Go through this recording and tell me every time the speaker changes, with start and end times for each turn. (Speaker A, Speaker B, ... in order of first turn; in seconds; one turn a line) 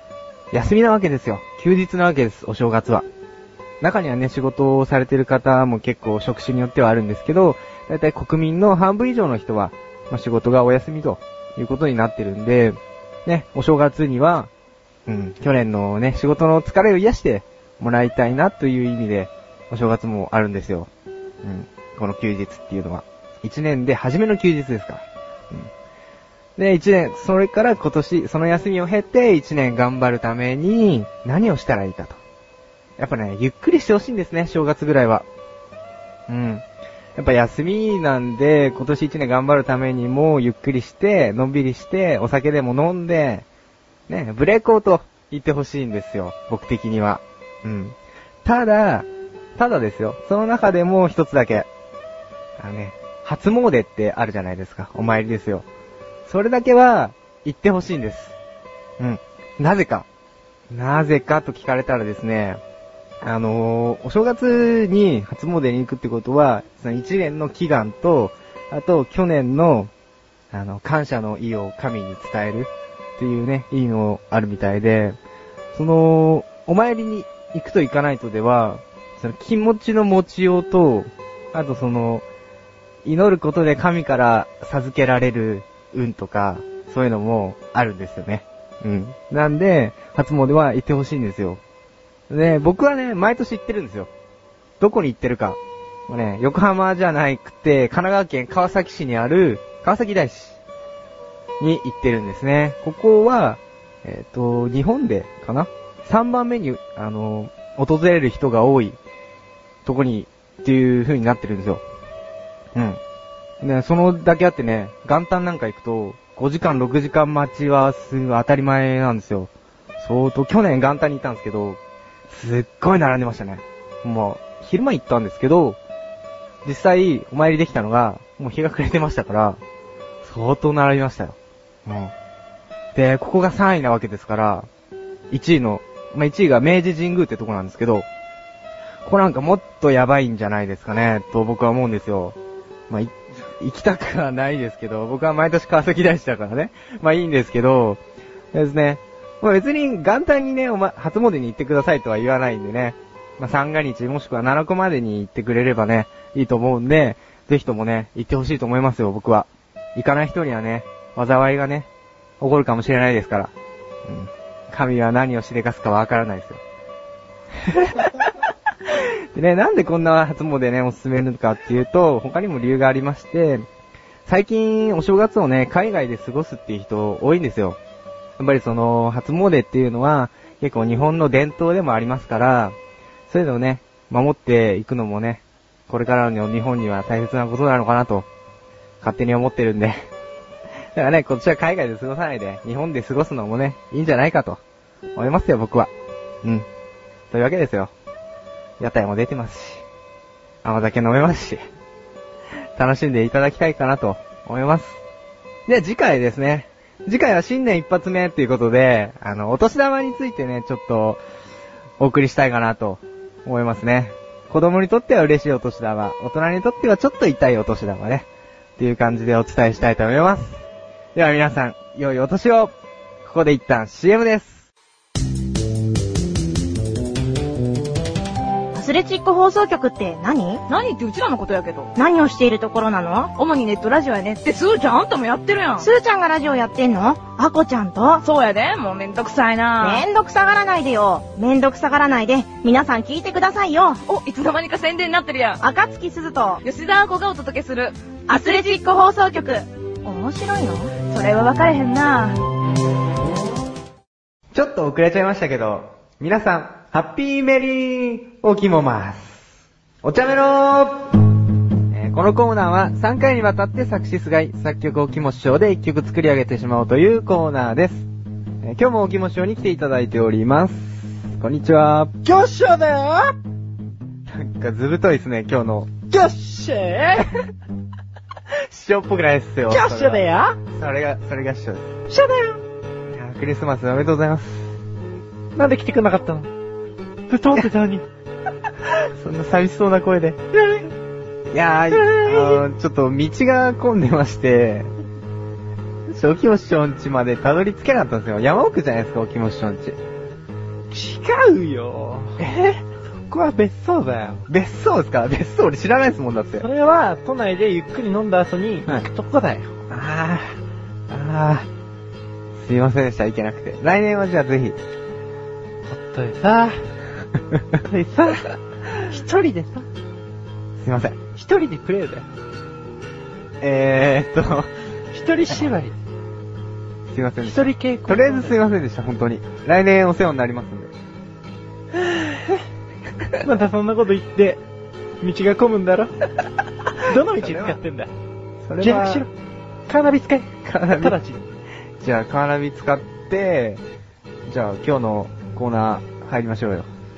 Speaker A: 0.5-3.1
Speaker A: 3.8-14.5
Speaker A: 15.1-20.9
Speaker A: 21.4-25.7
Speaker A: 26.6-32.2
Speaker A: 33.0-35.3
Speaker A: 36.3-36.6
Speaker A: 37.2-43.5
Speaker A: 44.1-51.7
Speaker A: 52.6-55.7
Speaker A: 56.3-58.4
Speaker A: 59.0-60.1
Speaker A: 60.7-62.6
Speaker A: 63.2-69.9
Speaker A: 70.5-75.2
Speaker A: 75.7-82.2
Speaker A: 83.0-91.6
Speaker A: 92.3-94.1
Speaker A: 94.8-100.6
Speaker A: 101.6-109.0
Speaker A: 109.8-111.8
Speaker A: 112.8-113.0
Speaker A: 113.6-125.8
Speaker A: 126.6-129.6
Speaker A: 130.2-132.1
Speaker A: 132.9-134.7
Speaker A: 135.3-138.1
Speaker A: 139.0-142.4
Speaker A: 142.9-148.0
Speaker A: 148.5-161.9
Speaker A: 162.4-163.5
Speaker A: 164.1-166.6
Speaker A: 167.6-168.2
Speaker A: 168.9-173.7
Speaker A: 174.3-177.8
Speaker A: 178.4-182.8
Speaker A: 183.3-188.3
Speaker A: 189.0-190.1
Speaker A: 190.9-194.6
Speaker A: 195.2-195.9
Speaker A: 197.3-197.9
Speaker A: 198.8-199.8
Speaker A: 200.6-201.6
Speaker A: 202.8-205.0
Speaker A: 205.7-211.2
Speaker A: 212.0-220.6
Speaker A: 221.2-222.7
Speaker A: 223.2-224.7
Speaker B: 228.8-230.6
Speaker C: 230.7-231.9
Speaker B: 231.9-233.3
Speaker C: 233.3-235.9
Speaker B: 235.8-238.2
Speaker C: 238.2-240.0
Speaker B: 239.8-244.0
Speaker C: 244.1-245.6
Speaker B: 245.6-246.6
Speaker C: 246.6-249.5
Speaker B: 248.3-251.0
Speaker C: 251.0-252.4
Speaker A: 254.5-259.5
Speaker A: 260.0-261.1
Speaker A: 261.9-268.1
Speaker A: 268.6-272.1
Speaker D: 272.2-273.3
Speaker A: 274.3-275.9
Speaker D: 276.1-277.3
Speaker A: 278.5-281.9
Speaker D: 279.7-280.6
Speaker D: 282.1-282.6
Speaker A: 283.1-284.8
Speaker D: 285.6-286.5
Speaker D: 287.3-288.1
Speaker A: 288.9-290.4
Speaker A: 291.5-294.9
Speaker D: 291.9-292.6
Speaker A: 296.1-300.0
Speaker D: 300.9-302.4
Speaker A: 302.4-302.8
Speaker D: 303.3-304.4
Speaker A: 304.5-306.6
Speaker D: 306.6-309.7
Speaker A: 309.9-310.6
Speaker A: 311.1-311.7
Speaker A: 312.6-314.8
Speaker D: 315.9-316.8
Speaker D: 317.9-319.9
Speaker A: 320.8-321.2
Speaker D: 321.4-322.3
Speaker A: 323.6-324.7
Speaker D: 325.1-326.0
Speaker A: 327.1-330.9
Speaker D: 327.4-328.6
Speaker D: 333.4-334.6
Speaker D: 335.2-336.1
Speaker D: 337.1-338.1
Speaker A: 337.3-337.8
Speaker A: 338.6-339.3
Speaker D: 338.8-339.3
Speaker D: 339.9-341.4
Speaker A: 340.6-341.2
Speaker A: 342.0-343.8
Speaker A: 344.5-346.9